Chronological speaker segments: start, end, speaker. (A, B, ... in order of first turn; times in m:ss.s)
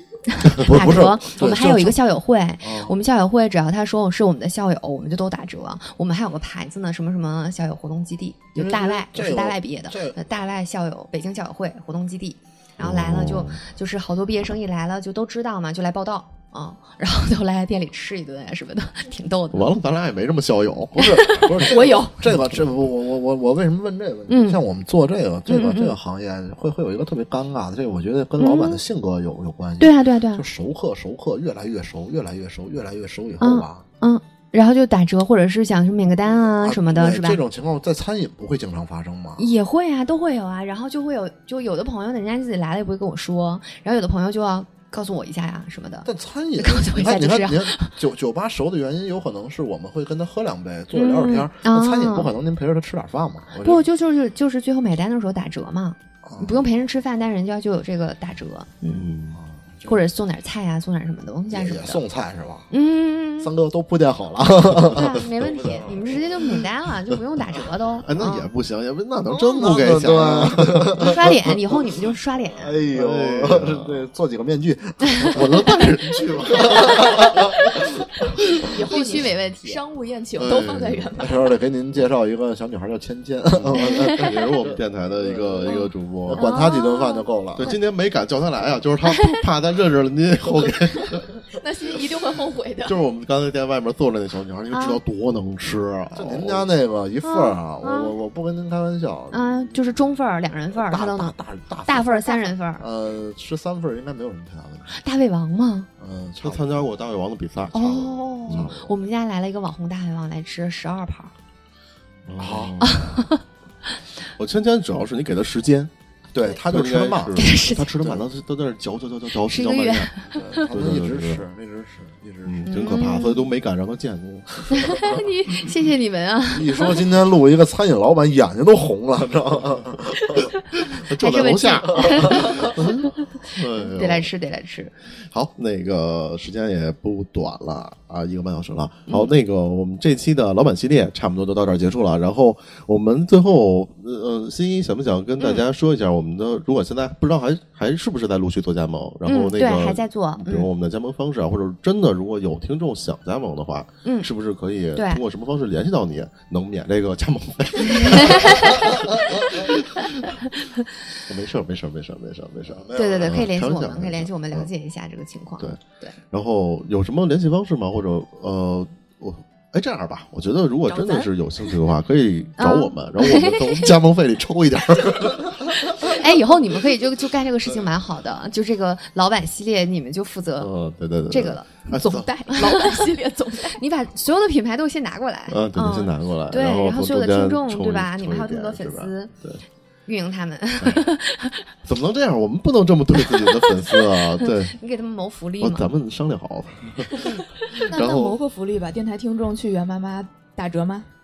0:00.3-0:19.7 A
0:00.5-0:02.0 B
0:02.6-0:02.9 B
0:08.6-0:10.2 B
0:12.8-0:13.6 C
0:19.5-0:21.4 C
0:21.0-0:33.8 B
0:21.6-0:22.2 D
0:24.3-0:24.6 A
0:25.5-0:26.0 A
0:28.4-0:28.8 A
0:29.8-0:30.4 A
0:33.4-0:37.4 A
0:36.4-0:39.5 B
0:39.4-0:47.9 A
0:46.0-0:53.8 B
0:50.9-0:52.3 A
0:53.6-0:59.1 A
0:56.2-0:56.6 B
0:58.9-0:59.4 C
0:59.3-1:00.0 B
0:59.8-1:02.0 A
1:01.5-1:02.7 B
1:02.7-1:03.5 A
1:03.4-1:06.3 B
1:04.9-1:08.5 A
1:05.5-1:05.8 C
1:08.0-1:11.1 C
1:09.2-1:11.5 B
1:11.0-1:12.8 A
1:12.5-1:15.6 B
1:12.9-1:14.0 C
1:15.3-1:17.7 C
1:16.3-1:17.8 B
1:18.6-1:21.5 D
1:18.9-1:19.8 A
1:20.4-1:21.1 C
1:21.2-1:27.7 B
1:23.6-1:26.5 C
1:23.8-1:24.2 A
1:26.4-1:27.8 A
1:27.6-1:31.3 C
1:31.5-1:33.0 D
1:32.8-1:36.7 C
1:34.7-1:35.0 A
1:36.1-1:39.8 B
1:37.2-1:38.2 A
1:39.3-1:41.3 A
1:40.7-1:44.9 B
1:41.8-1:42.8 A
1:44.9-1:45.9 A
1:46.0-1:46.9 B
1:46.4-1:48.8 C
1:47.7-1:51.3 A
1:48.5-1:48.8 B
1:52.3-1:53.2 C
1:52.4-1:52.8 B
1:52.8-1:53.4 A
1:54.4-1:55.9 C
1:56.3-1:58.2 B
1:56.6-2:01.4 C
1:57.4-1:57.9 A
1:59.4-2:00.7 A
2:00.4-2:02.7 B
2:02.4-2:05.2 C
2:02.6-2:03.4 A
2:04.7-2:07.0 A
2:04.8-2:05.2 B
2:06.5-2:10.5 B
2:10.7-2:14.3 C
2:11.2-2:13.0 A
2:11.9-2:12.7 B
2:13.8-2:14.9 A
2:15.1-2:40.4 C
2:25.4-2:25.6 A
2:29.2-2:30.7 A
2:34.0-2:34.3 A
2:34.9-2:35.2 A
2:37.9-2:39.3 A
2:41.1-2:44.7 C
2:42.6-2:43.5 B
2:43.0-2:46.1 A
2:46.3-2:56.2 C
2:50.9-2:51.3 D
2:52.6-2:53.9 A
2:56.0-3:00.7 A
3:00.6-3:02.3 C
3:01.3-3:01.7 A
3:01.9-3:03.8 D
3:02.5-3:03.0 A
3:03.8-3:09.3 A
3:05.5-3:09.6 C
3:10.1-3:11.7 A
3:11.8-3:14.8 C
3:13.2-3:15.9 A
3:15.6-3:18.4 C
3:17.2-3:17.8 A
3:17.8-3:21.1 D